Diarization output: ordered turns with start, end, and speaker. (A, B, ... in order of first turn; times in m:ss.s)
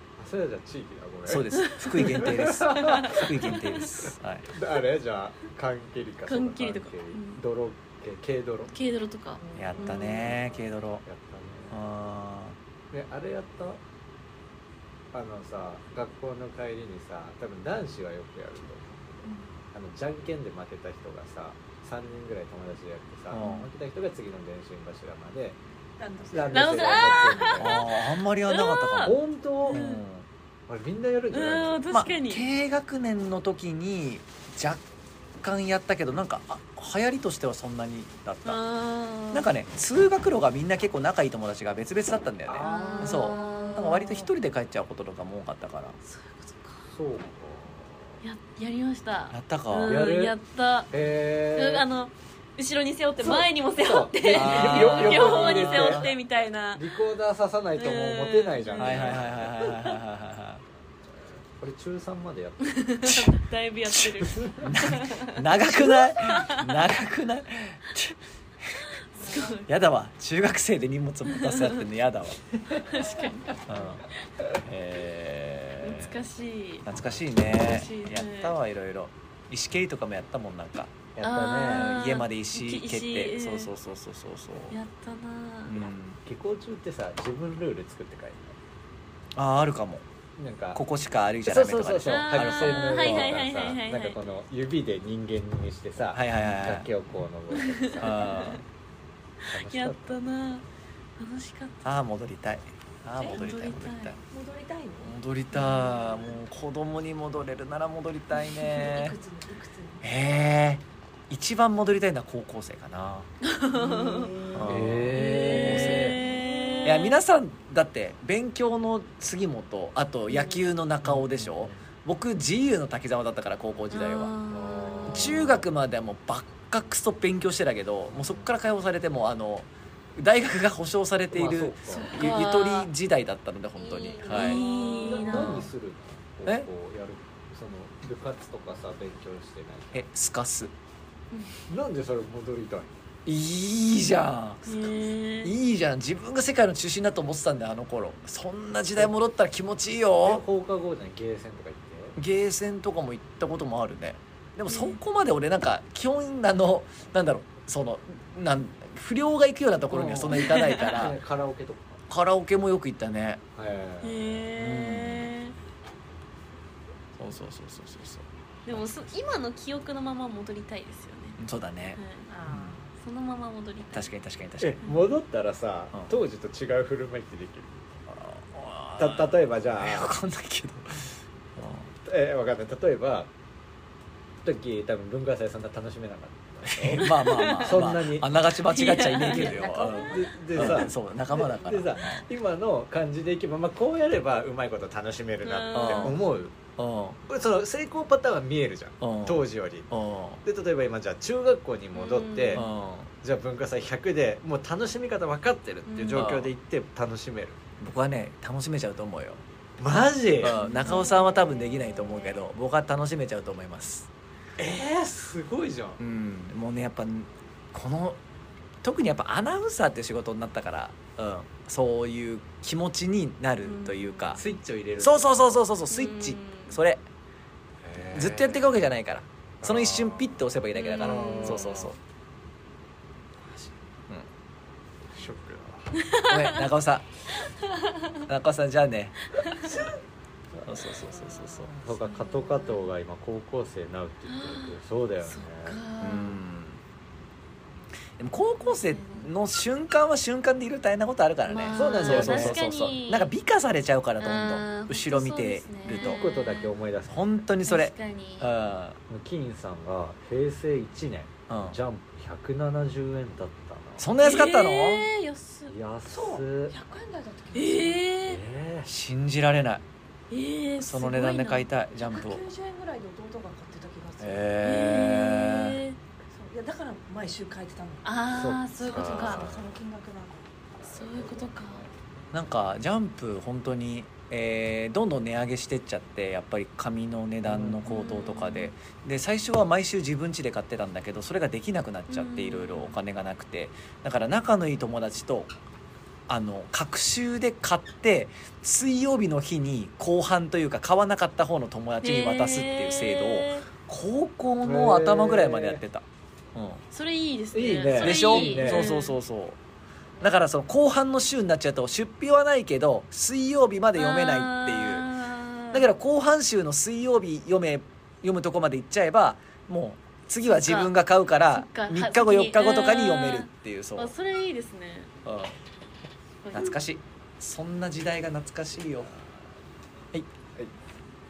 0:00.2-0:03.6 A
0:01.3-0:04.5 B
0:01.6-0:03.8 C
0:04.5-0:08.7 A
0:06.3-0:07.4 C
0:08.7-0:10.3 C
0:09.5-0:09.9 D
0:09.5-0:11.8 A
0:09.6-0:11.0 B
0:11.7-0:12.6 B
0:12.9-0:13.8 A
0:15.1-0:25.6 A
0:23.3-0:23.6 B
0:23.4-0:23.6 C
0:26.0-0:27.6 D
0:26.3-0:27.9 A
0:26.5-0:29.2 C
0:27.6-0:29.2 B
0:29.0-0:29.8 A
0:29.7-0:30.0 C
0:29.7-0:30.3 B
0:30.7-0:31.9 A
0:31.3-0:32.5 C
0:31.9-0:34.8 B
0:35.4-0:38.6 B
0:38.4-0:39.5 C
0:39.3-0:46.0 B
0:42.5-0:43.4 A
0:42.6-0:44.3 C
0:46.0-0:46.9 C
0:46.9-0:48.2 A
0:48.2-0:50.9 C
0:49.3-0:50.0 B
0:49.9-0:50.4 A
0:50.9-0:51.9 A
0:51.6-0:57.0 C
0:53.2-0:56.1 A
0:54.2-0:56.1 B
0:56.8-0:59.8 A
0:57.8-0:59.3 C
0:58.8-1:00.6 B
1:01.6-1:02.9 A
1:02.7-1:06.8 C
1:04.3-1:04.6 A
1:04.6-1:08.2 B
1:09.1-1:09.7 C
1:09.3-1:12.4 B
1:11.3-1:11.8 C
1:12.8-1:13.8 C
1:13.7-1:14.0 B
1:14.6-1:16.2 B
1:15.8-1:16.9 C
1:16.8-1:24.8 B
1:17.5-1:18.6 C
1:21.2-1:21.9 A
1:21.2-1:23.7 C
1:24.7-1:25.9 C
1:25.7-1:26.2 B
1:26.2-1:28.6 A
1:29.4-1:30.0 B
1:30.4-1:30.8 A
1:30.7-1:33.4 B
1:31.4-1:38.2 A
1:32.0-1:34.2 C
1:36.1-1:36.9 B
1:37.6-1:38.6 C
1:38.0-1:38.6 B
1:39.4-1:40.6 C
1:39.5-1:40.2 A
1:41.2-1:41.8 C
1:41.8-1:44.2 B
1:43.2-1:44.1 C
1:44.3-1:45.2 D
1:45.0-1:49.2 B
1:45.5-1:46.2 C
1:48.5-1:50.0 D
1:50.0-1:53.3 B
1:53.4-1:54.3 C
1:53.7-1:54.8 D
1:54.5-1:56.2 B
1:54.6-1:56.2 A
1:55.1-1:57.2 C
1:56.1-1:56.9 D
1:56.8-2:04.3 B
2:01.0-2:01.8 A
2:03.9-2:05.5 C
2:04.5-2:05.6 A
2:05.1-2:14.6 B
2:11.3-2:12.2 A
2:11.9-2:12.9 C
2:13.8-2:15.6 D
2:14.3-2:15.7 C
2:14.3-2:20.1 A
2:19.9-2:20.7 B
2:21.7-2:22.9 A
2:23.3-2:24.9 B
2:24.6-2:25.6 C
2:25.4-2:30.4 B
2:30.2-2:32.2 A
2:32.2-2:41.2 B
2:34.7-2:35.0 C
2:39.9-2:42.0 A
2:40.3-2:41.0 C
2:42.1-2:43.4 B
2:43.6-2:44.5 A
2:44.0-2:45.6 C
2:44.6-2:45.3 B
2:47.2-2:48.9 B
2:48.6-2:51.4 C
2:51.4-2:52.8 B
2:51.9-2:52.3 C
2:52.3-2:52.9 D
2:53.0-2:54.1 C
2:53.9-2:54.8 B
2:54.6-2:57.7 A
2:58.1-3:01.9 B
2:59.0-3:00.1 A
3:02.0-3:03.3 A
3:04.4-3:08.4 A
3:06.6-3:12.2 B
3:07.0-3:07.8 C
3:08.6-3:10.2 C
3:09.3-3:10.7 D
3:10.1-3:16.6 A
3:15.4-3:16.1 C
3:15.7-3:16.2 B
3:16.8-3:17.2 B
3:17.3-3:19.9 A
3:19.0-3:20.4 B
3:20.4-3:22.6 A
3:21.9-3:22.7 C
3:22.5-3:23.1 B
3:23.2-3:27.6 A
3:25.9-3:26.3 C
3:26.1-3:26.5 B
3:27.8-3:29.4 B
3:29.8-3:30.6 A
3:30.4-3:34.1 B
3:30.5-3:32.4 C
3:34.6-3:36.0 A
3:36.0-3:38.2 B
3:38.8-3:44.4 B
3:43.6-3:44.4 C
3:44.4-3:45.6 A
3:45.0-3:47.0 B
3:45.9-3:46.8 C
3:47.8-3:48.8 A
3:48.1-3:52.0 B
3:49.6-3:51.9 A
3:50.7-3:51.9 C
3:55.1-3:56.0 A
3:56.0-3:56.6 C
3:56.2-3:57.1 B
3:57.7-3:58.2 C
3:58.3-3:59.3 B
3:59.4-3:59.7 C
3:59.6-3:59.9 A
4:00.5-4:05.8 A
4:00.6-4:01.7 B
4:02.0-4:02.9 C
4:04.3-4:04.8 C
4:05.3-4:06.4 C
4:06.0-4:06.8 B
4:08.2-4:16.2 B
4:08.7-4:09.3 C
4:11.4-4:13.3 C
4:11.7-4:12.6 A
4:14.2-4:16.7 C
4:16.0-4:17.4 A
4:17.1-4:19.0 B
4:17.6-4:18.5 C
4:19.1-4:24.1 A
4:21.5-4:21.8 B
4:24.0-4:25.1 B
4:24.2-4:25.7 C
4:25.7-4:26.8 A
4:26.1-4:28.1 D
4:27.5-4:28.4 C
4:28.2-4:28.9 A
4:28.9-4:29.8 B
4:30.3-4:32.3 C
4:30.8-4:32.4 B
4:32.0-4:34.6 D
4:34.2-4:35.8 B
4:34.6-4:36.0 C
4:36.2-4:38.2 D
4:38.0-4:39.5 C
4:38.3-4:39.6 A
4:38.8-4:40.5 D
4:40.8-4:41.9 C
4:42.3-4:55.5 B
4:47.4-4:47.8 A
4:47.9-4:48.7 C
4:52.1-4:53.0 C
4:56.3-5:06.8 B
5:02.0-5:03.6 C
5:04.6-5:05.8 A
5:06.9-5:09.2 C
5:07.5-5:08.9 A
5:08.0-5:09.6 B
5:10.2-5:15.1 B
5:14.0-5:15.9 C
5:15.7-5:24.1 B
5:20.5-5:20.9 C
5:21.5-5:25.1 C
5:25.2-5:25.6 B
5:26.4-5:26.7 C
5:26.5-5:29.1 B